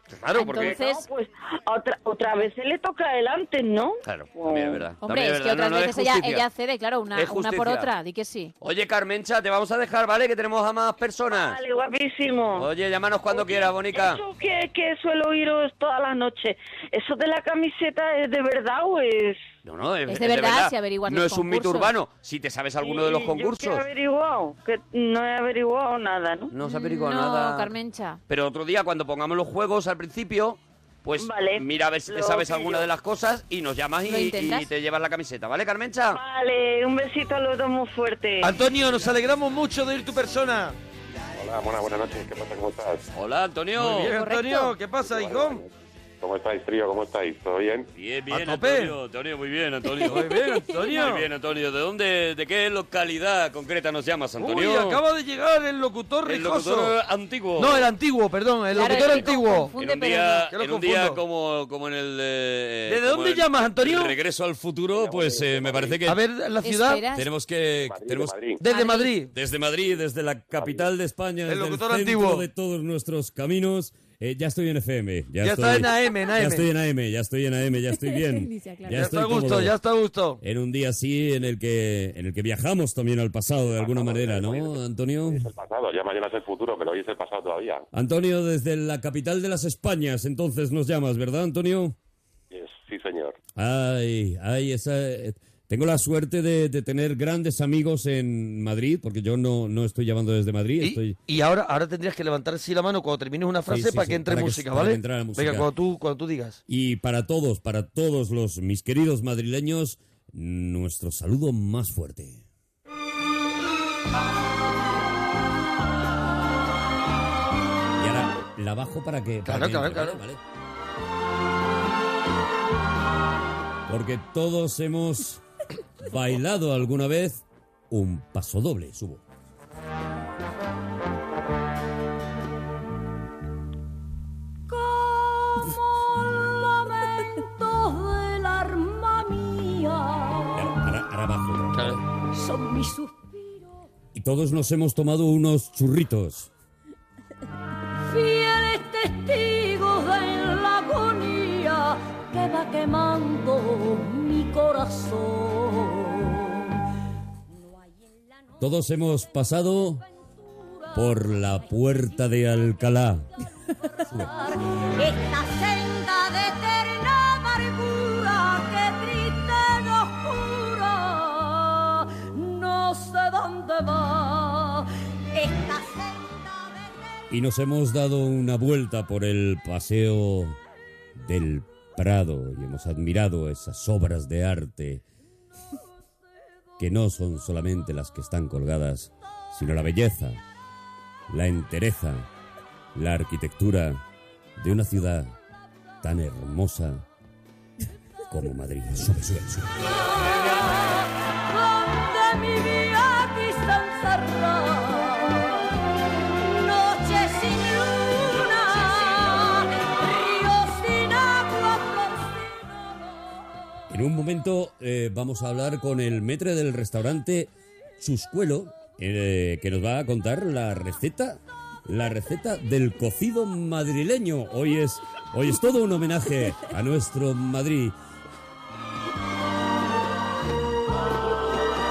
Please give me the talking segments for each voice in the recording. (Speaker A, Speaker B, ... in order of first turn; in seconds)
Speaker A: 0.1-0.8, 4.0-6.5, 7.1-7.9, 8.6-11.6, 12.6-14.2, 19.6-23.9, 26.5-27.7, 28.3-36.2, 43.1-44.1, 48.0-55.0, 56.2-57.9, 58.8-66.2, 67.1-68.3, 69.3-79.8, 80.4-85.5, 87.9-92.0, 93.6-101.2, 103.7-105.7, 106.7-112.4, 118.0-120.4, 123.9-125.4, 126.0-129.2, 140.5-142.0, 144.1-146.5, 158.6-160.0, 160.9-163.3, 177.3-180.6, 181.2-185.0, 186.8-190.4, 191.3-192.3, 192.9-194.0, 194.6-195.3, 196.0-197.0, 198.3-199.9, 213.9-227.9
Speaker B: 0.4-1.1, 5.0-8.5, 20.1-21.9, 26.6-28.2, 34.0-34.7, 44.1-44.8, 58.8-60.5, 66.6-67.3, 68.6-69.1, 78.0-79.1
Speaker C: 0.5-4.9, 11.3-12.7, 13.3-19.4, 22.8-26.5, 31.2-32.9, 36.1-38.5
Speaker D: 38.4-40.8, 43.8-45.6, 48.3-49.0, 50.0-51.3, 54.4-56.9, 57.6-59.7, 60.5-61.2, 62.9-64.2, 66.0-67.0, 68.6-69.3, 71.5-72.5, 75.4-76.7, 78.9-80.4, 100.8-106.6, 119.5-120.2
Speaker E: 41.4-43.0, 45.0-47.9, 64.9-66.0, 67.9-68.6, 70.6-70.9, 83.7-87.9, 92.5-93.4
Speaker F: 134.7-140.7, 142.3-143.6, 148.1-156.7, 160.4-161.3, 164.0-176.8, 199.9-205.8, 206.4-213.1